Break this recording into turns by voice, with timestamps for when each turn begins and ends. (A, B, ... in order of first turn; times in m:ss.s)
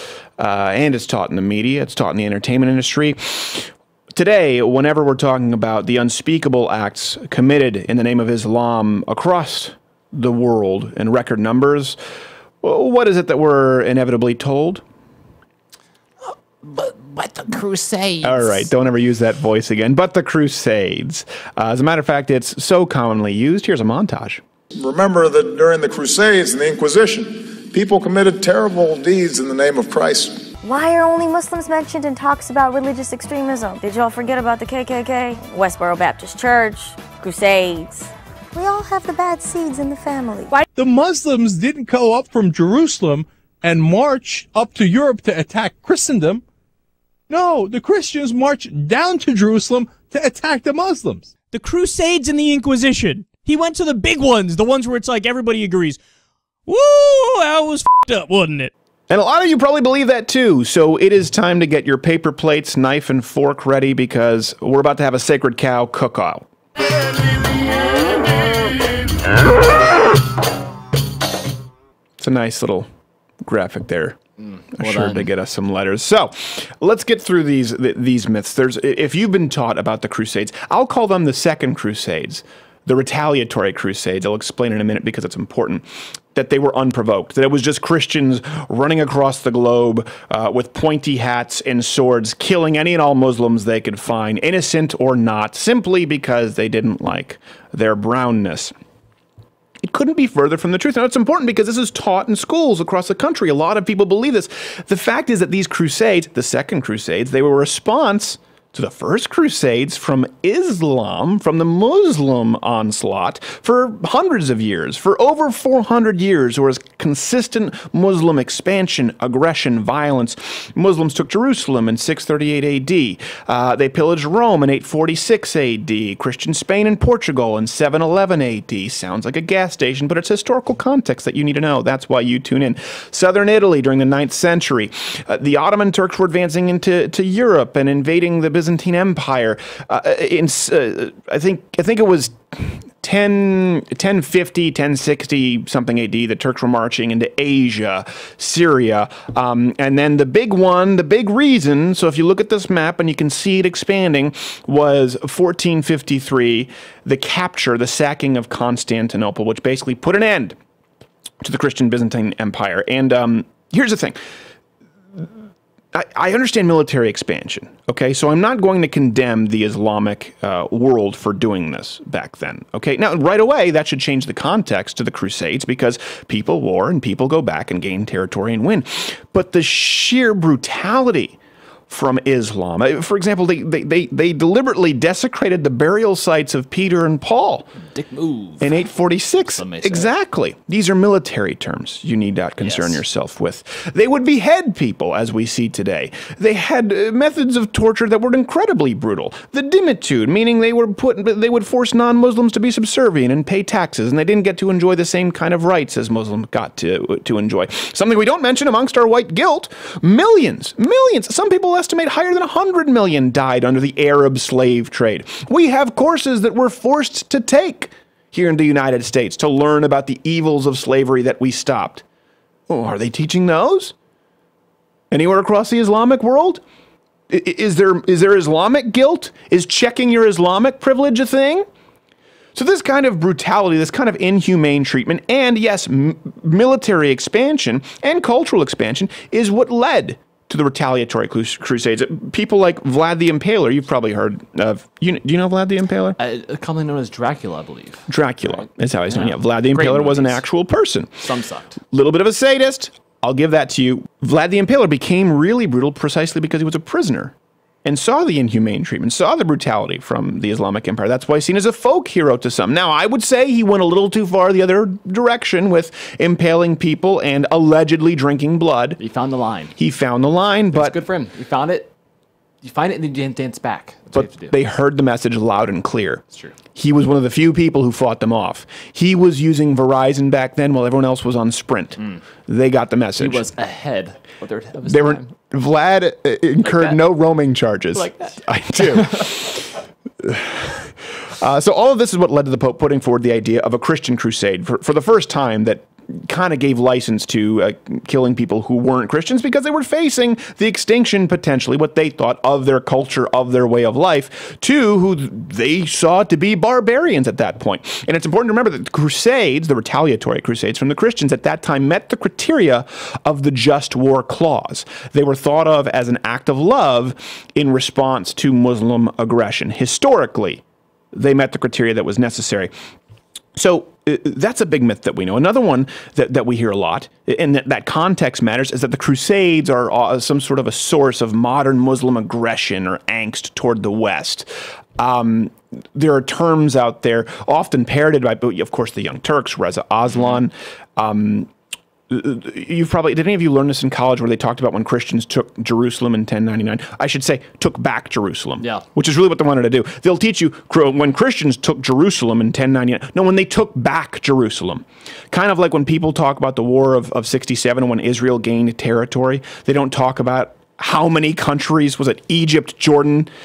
0:00.4-0:12.0 A
0:12.6-0:14.8 A
0:16.6-0:18.7 B
0:18.2-0:24.4 A
0:24.8-0:30.5 C
0:30.6-0:40.6 D
0:40.8-0:46.4 E
0:47.3-0:51.4 E
0:51.5-0:56.0 F
0:56.7-0:58.7 F
0:59.1-1:06.5 A
1:12.2-1:12.9 A
1:13.5-1:14.2 A
1:14.7-1:15.2 B
1:14.8-1:38.7 A
1:39.8-2:40.6 A
2:41.4-2:44.2 A
2:45.9-3:01.4 A
3:01.9-3:07.7 A
3:07.9-3:08.7 B
3:08.6-3:42.0 A
3:09.5-3:10.1 B
3:12.6-3:13.0 B
3:42.7-3:43.9 A
3:45.1-3:46.6 A
3:47.3-3:51.6 A
3:52.6-4:06.2 A
4:06.2-4:10.4 B
4:08.1-4:11.2 A
4:11.2-4:11.8 B
4:11.9-4:29.0 A
4:29.0-4:29.7 B
4:29.8-4:31.0 A
4:30.7-4:31.9 B
4:32.6-4:34.5 B
4:34.1-4:43.5 A
4:43.2-4:45.3 B
4:44.8-5:20.6 A
5:21.1-5:22.7 A
5:23.6-5:34.5 A
5:35.0-5:41.5 A
5:42.1-6:03.3 A